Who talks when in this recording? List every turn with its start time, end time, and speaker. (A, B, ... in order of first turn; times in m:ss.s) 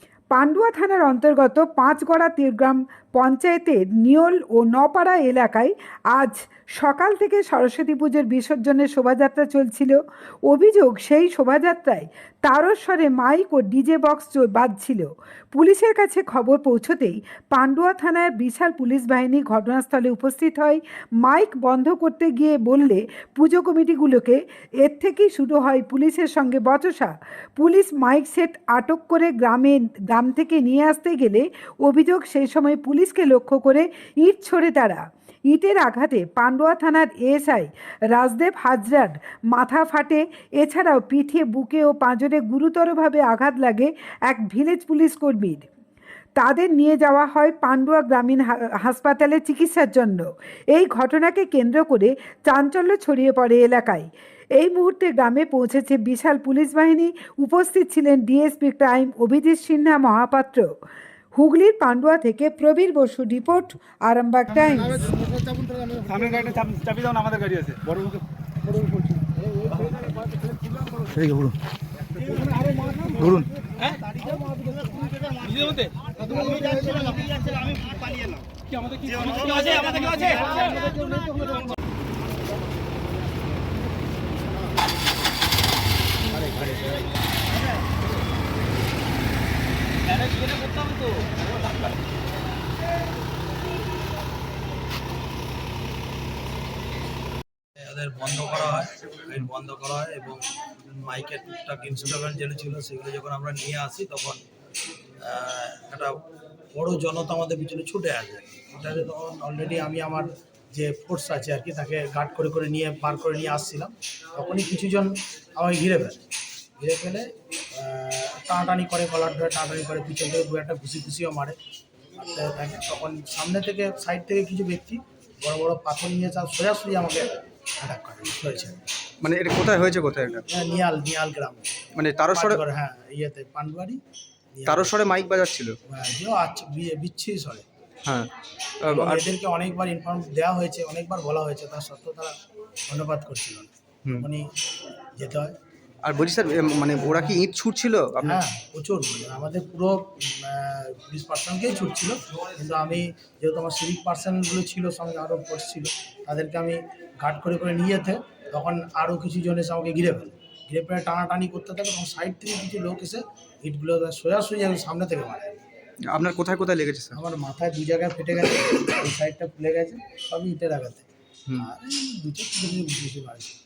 0:00.3-0:45.7 A
0:46.4-1:00.7 A
1:01.3-1:05.2 A
1:06.0-1:08.2 B
1:12.4-1:14.0 B
1:15.4-1:17.0 B
1:18.7-1:21.2 B
1:30.4-1:30.9 B
1:37.8-1:44.4 C
1:45.2-1:46.2 C
1:46.7-1:56.2 C
1:56.8-2:01.6 C
2:02.2-2:08.8 C
2:09.2-2:10.4 D
2:10.5-2:11.7 C
2:12.0-2:12.6 D
2:12.3-2:14.0 C
2:14.5-2:15.0 C
2:14.6-2:15.8 D
2:15.9-2:17.6 C
2:18.0-2:18.3 D
2:18.8-2:19.3 D
2:18.9-2:22.4 C
2:22.9-2:24.5 C
2:25.2-2:25.6 C
2:26.0-2:28.4 D
2:28.2-2:45.6 C
2:46.1-2:47.2 D
2:47.1-2:53.6 C